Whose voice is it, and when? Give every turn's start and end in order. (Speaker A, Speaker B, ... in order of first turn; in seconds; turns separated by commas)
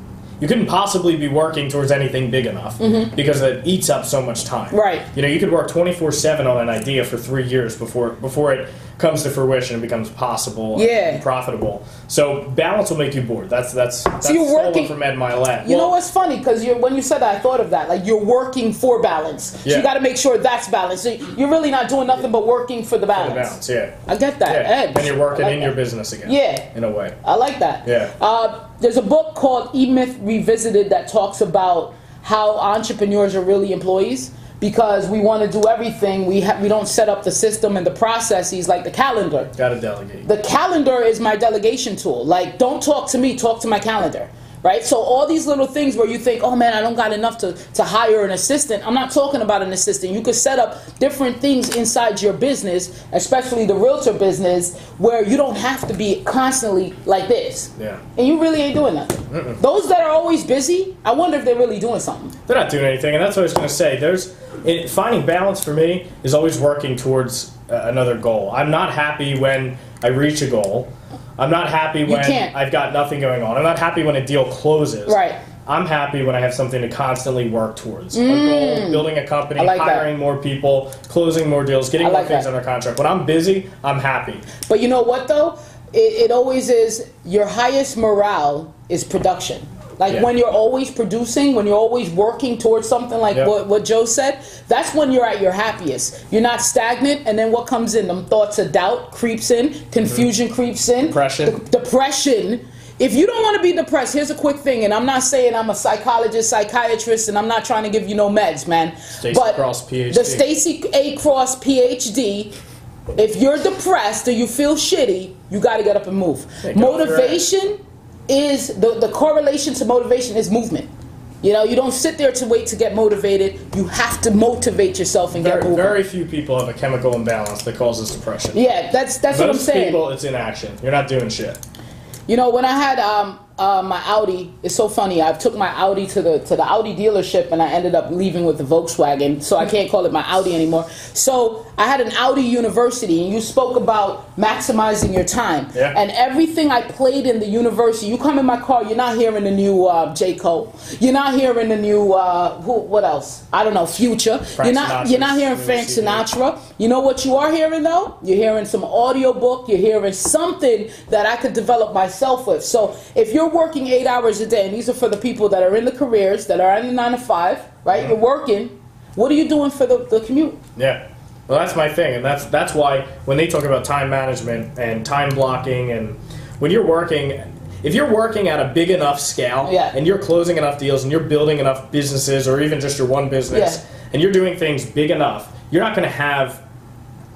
Speaker A: 0.4-16.0, Speaker B: 2.8-3.1, Speaker B: 4.7-5.1, Speaker B: 10.8-11.2, Speaker B: 14.2-14.9, Speaker B: 15.6-25.7, Speaker A: 23.1-27.1, Speaker B: 26.2-26.7, Speaker B: 27.2-39.5, Speaker A: 27.9-28.1, Speaker A: 39.6-40.3, Speaker B: 40.2-62.4, Speaker A: 57.8-58.0, Speaker A: 59.3-59.6, Speaker A: 62.5-84.5, Speaker B: 72.1-72.5, Speaker B: 75.1-75.4, Speaker B: 78.1-80.1, Speaker B: 82.0-82.5, Speaker B: 84.7-112.5, Speaker A: 101.0-101.6, Speaker A: 109.2-110.4, Speaker B: 113.2-120.9, Speaker A: 116.6-117.5, Speaker B: 121.4-126.0, Speaker A: 125.4-128.6, Speaker B: 128.5-130.0, Speaker A: 129.3-131.6, Speaker B: 132.3-170.6, Speaker A: 154.6-156.3, Speaker A: 170.8-186.6, Speaker B: 179.7-179.9, Speaker B: 183.5-183.8